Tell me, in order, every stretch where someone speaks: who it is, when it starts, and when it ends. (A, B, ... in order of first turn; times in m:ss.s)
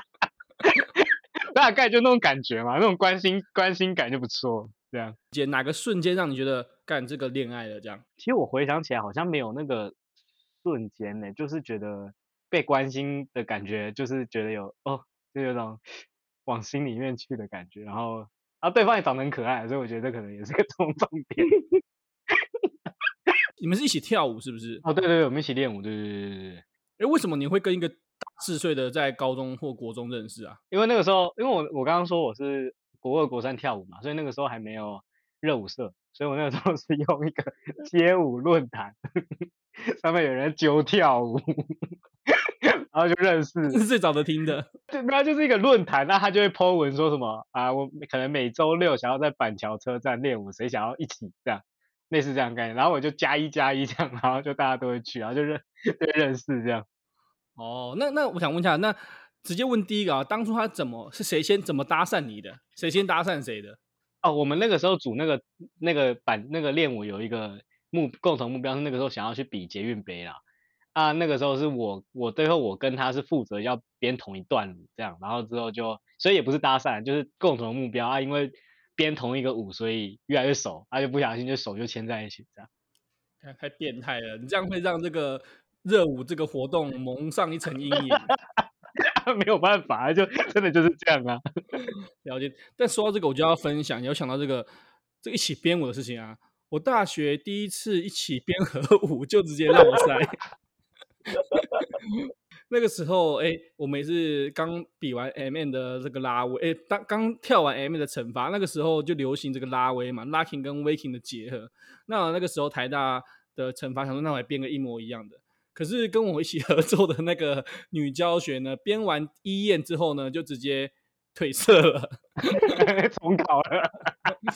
0:00.6-0:05.2 A
0:05.3-0:08.0 B
0:08.2-0:10.0 A
0:10.6-0:15.8 A
0:16.4-0:21.6 A
0:23.6-0:24.8 B
0:24.8-0:26.6 A
0:27.0-0:30.6 B
0:30.7-0:41.9 A
0:42.5-0:43.8 A
0:43.7-0:44.7 B
0:44.9-0:56.8 A
0:57.6-1:03.8 B
1:04.2-1:10.4 A
1:10.9-1:22.7 A
1:23.4-1:28.3 B
1:28.0-1:31.8 A
1:32.2-1:34.7 B
1:35.2-1:40.4 B
1:41.4-2:02.8 B
2:02.5-2:04.4 A